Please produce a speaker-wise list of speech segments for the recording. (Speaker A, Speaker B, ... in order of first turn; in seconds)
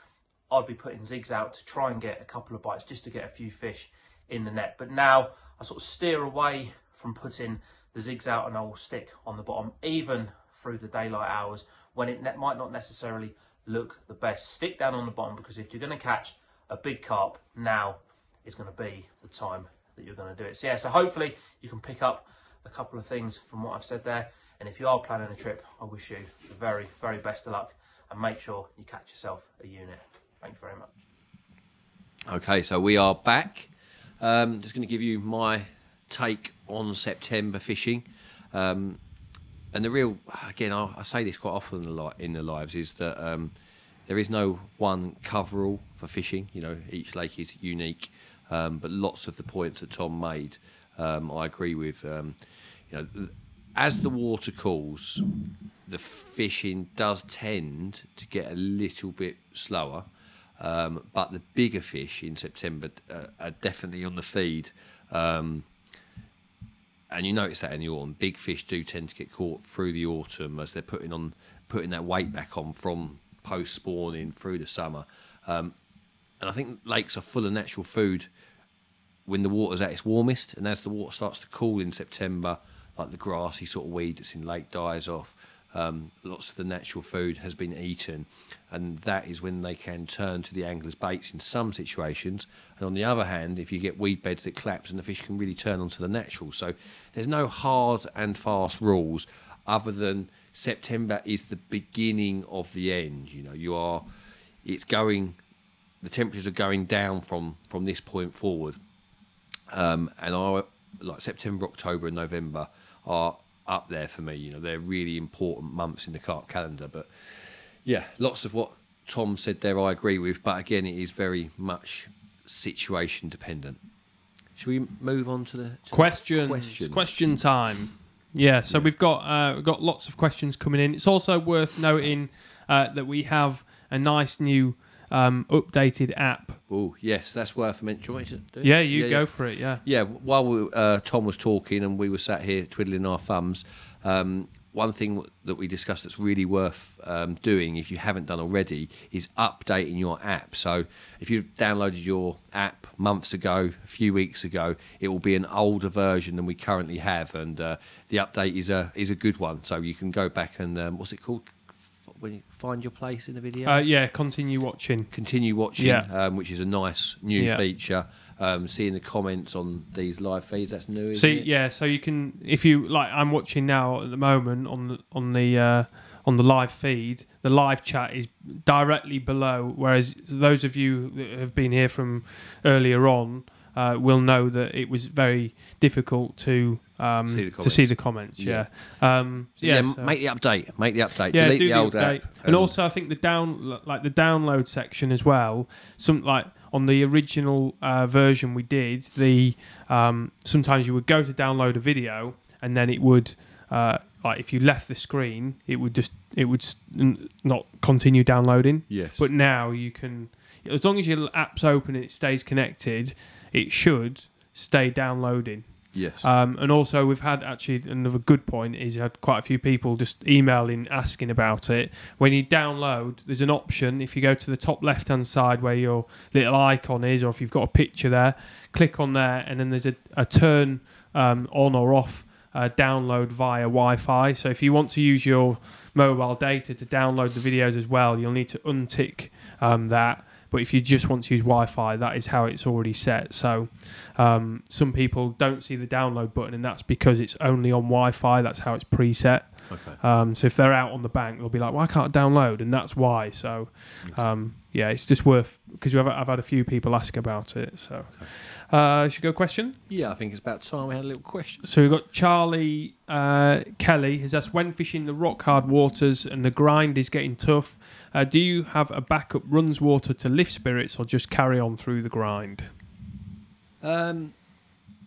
Speaker A: 0.5-30.9
Speaker B: 32.3-39.0, 39.7-43.5, 44.1-52.4, 52.9-55.3, 55.9-65.7, 67.1-75.8, 76.4-78.3, 79.3-104.0, 104.6-105.4, 106.0-108.8, 109.7-123.8, 124.6-127.1, 136.7-139.3, 139.8-163.8, 165.1-171.5, 187.3-188.7, 189.6-192.8, 208.9-209.3, 215.9-216.3, 249.7-250.0, 259.9-261.6, 273.8-274.4
Speaker C: 125.9-136.6, 138.6-139.8, 163.7-165.1, 165.8-166.1, 167.4-167.6, 171.1-190.1, 191.3-259.8, 261.6-272.7